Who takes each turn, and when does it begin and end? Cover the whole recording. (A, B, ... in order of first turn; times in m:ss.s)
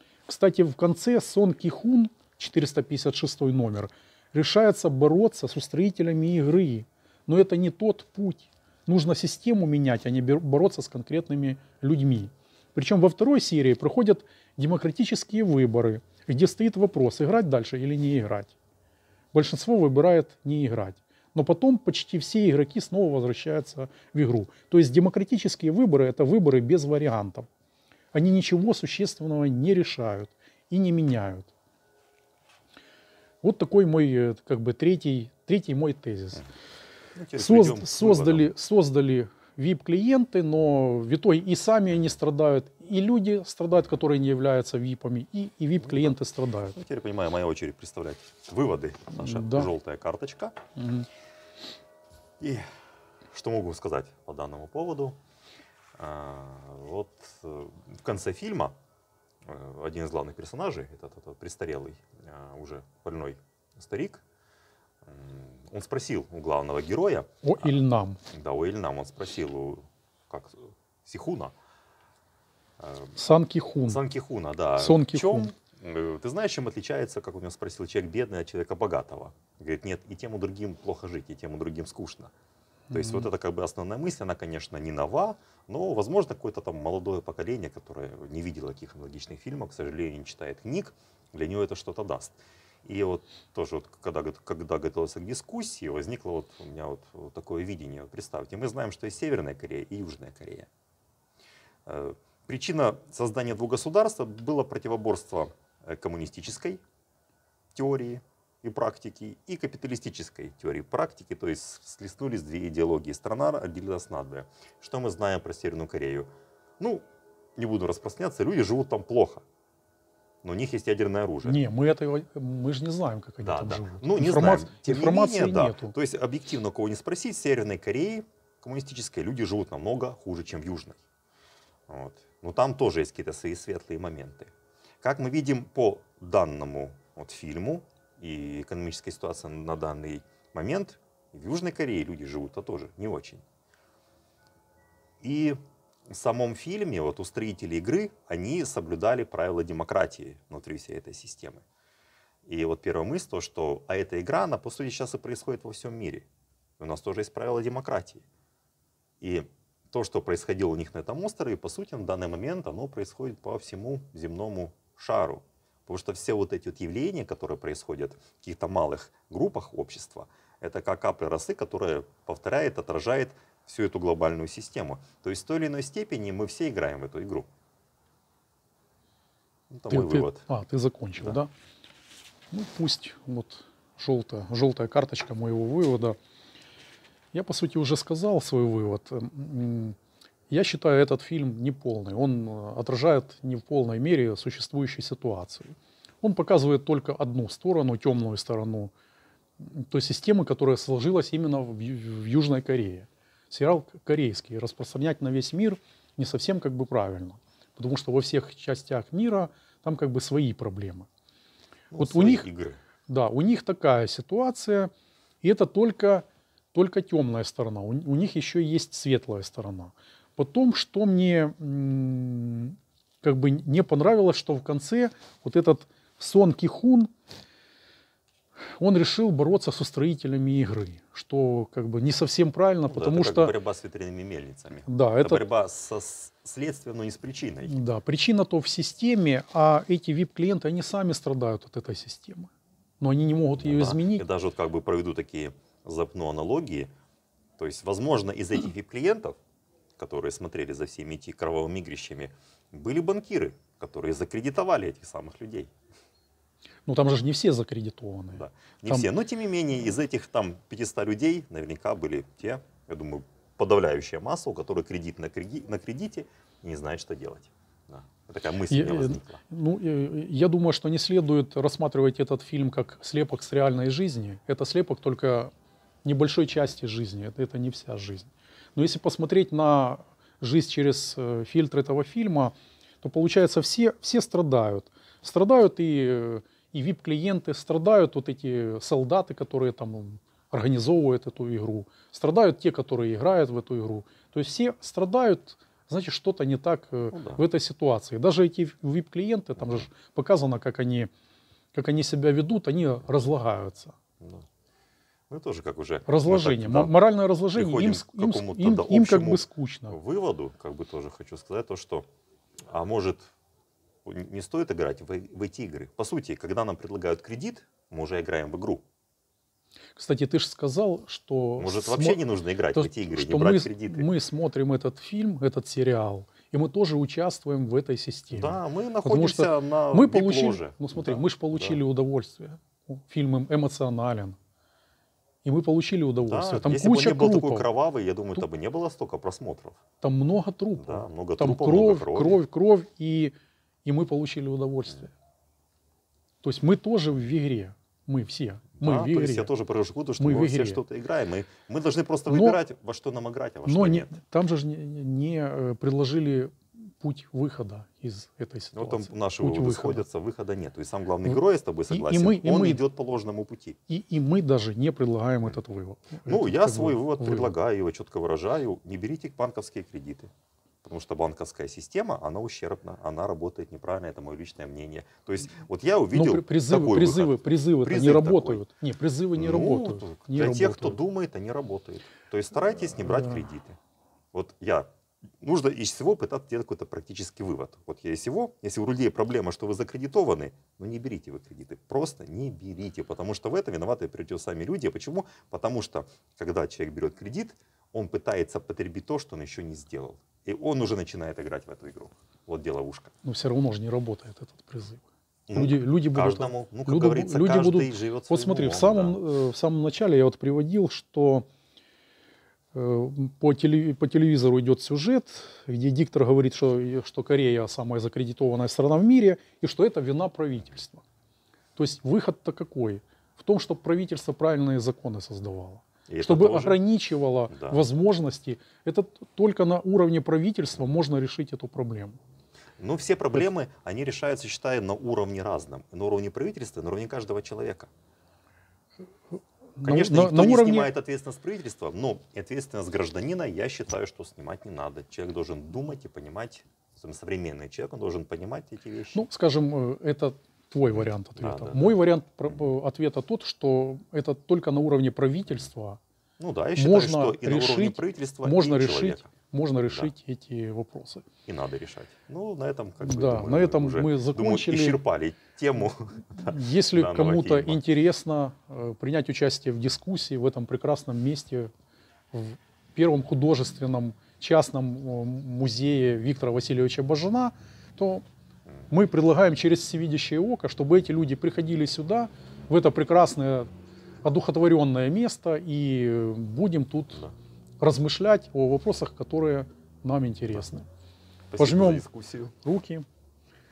0:00.2-0:18.5 A
0:19.3-0:27.5 A
0:28.1-0:31.5 A
0:33.4-0:36.4 A
0:37.1-0:38.5 B
0:37.4-0:46.8 A
0:45.8-0:46.2 B
0:46.7-0:50.6 B
0:49.2-0:49.7 A
0:50.8-0:51.1 A
0:52.4-0:52.7 B
0:53.3-0:55.2 B
0:56.0-0:58.8 B
0:59.4-1:04.2 B
1:05.0-1:07.8 B
1:07.4-1:08.2 A
1:08.3-1:11.5 B
1:12.8-1:13.1 B
1:13.2-1:14.0 A
1:13.8-1:22.3 B
1:14.8-1:15.5 A
1:22.9-1:23.3 A
1:22.9-1:40.7 B
1:41.8-1:46.8 B
1:47.7-1:56.3 B
1:56.8-1:59.4 B
2:00.4-2:01.6 B
2:01.4-2:05.9 A
2:03.4-2:11.0 B
2:11.9-2:23.4 B
2:25.2-2:31.6 B
2:32.4-2:36.3 B
2:36.8-2:38.2 B
2:39.2-2:57.5 B
2:59.7-3:00.4 B
2:59.9-3:01.5 A
3:02.5-3:06.2 A
3:07.3-3:10.0 A
3:10.5-3:18.9 A
3:19.6-3:31.1 A
3:31.9-3:32.8 B
3:32.0-3:32.5 A
3:33.1-3:34.9 A
3:35.4-3:47.1 A
3:48.8-3:53.6 A
3:52.8-3:57.8 B
3:54.8-3:55.4 A
3:57.6-4:04.2 A
4:03.6-4:06.9 B
4:07.6-4:09.4 B
4:10.0-4:15.7 B
4:16.9-4:19.1 A
4:18.3-4:29.4 B
4:28.7-4:35.5 A
4:36.0-5:01.1 A
4:57.1-4:57.4 B
5:01.7-5:04.0 A
5:04.2-5:04.4 B
5:05.3-5:06.9 B
5:06.1-5:10.0 A
5:07.5-5:12.0 B
5:12.7-5:13.2 B
5:14.0-5:18.8 B
5:20.0-5:22.2 A
5:21.6-5:24.1 B
5:22.7-5:34.4 A
5:28.3-5:31.8 B
5:35.4-5:37.7 A
5:36.3-5:39.8 B
5:40.0-5:45.1 A
5:40.8-5:42.4 B
5:46.4-5:49.5 A
5:48.8-5:54.1 B
5:50.2-5:50.8 A
5:52.3-5:52.6 A
5:53.6-6:00.0 A
5:58.7-6:03.8 B
6:01.2-6:02.8 A
6:03.9-6:07.5 A
6:06.2-6:10.3 B
6:10.8-6:18.6 B
6:16.1-6:21.0 A
6:19.4-6:23.8 B
6:24.3-6:24.9 B
6:25.4-6:43.1 B
6:43.2-6:51.4 A
6:45.5-6:49.2 B
6:52.7-7:01.0 A
7:01.8-7:12.2 A
7:06.1-7:06.8 B
7:07.5-7:07.8 B
7:12.8-7:17.9 B
7:19.8-7:20.9 A
7:19.8-7:29.2 B
7:29.1-7:36.0 A
7:31.4-7:32.0 B
7:36.4-7:39.3 B
7:36.8-7:41.3 A
7:41.4-7:47.8 B
7:43.0-7:45.0 A
7:46.4-7:51.7 A
7:52.3-7:58.2 A
7:58.9-8:03.7 A
8:04.2-8:07.3 A
8:07.8-8:10.9 A
8:11.5-8:12.5 B
8:11.6-8:12.0 A
8:12.6-8:13.0 A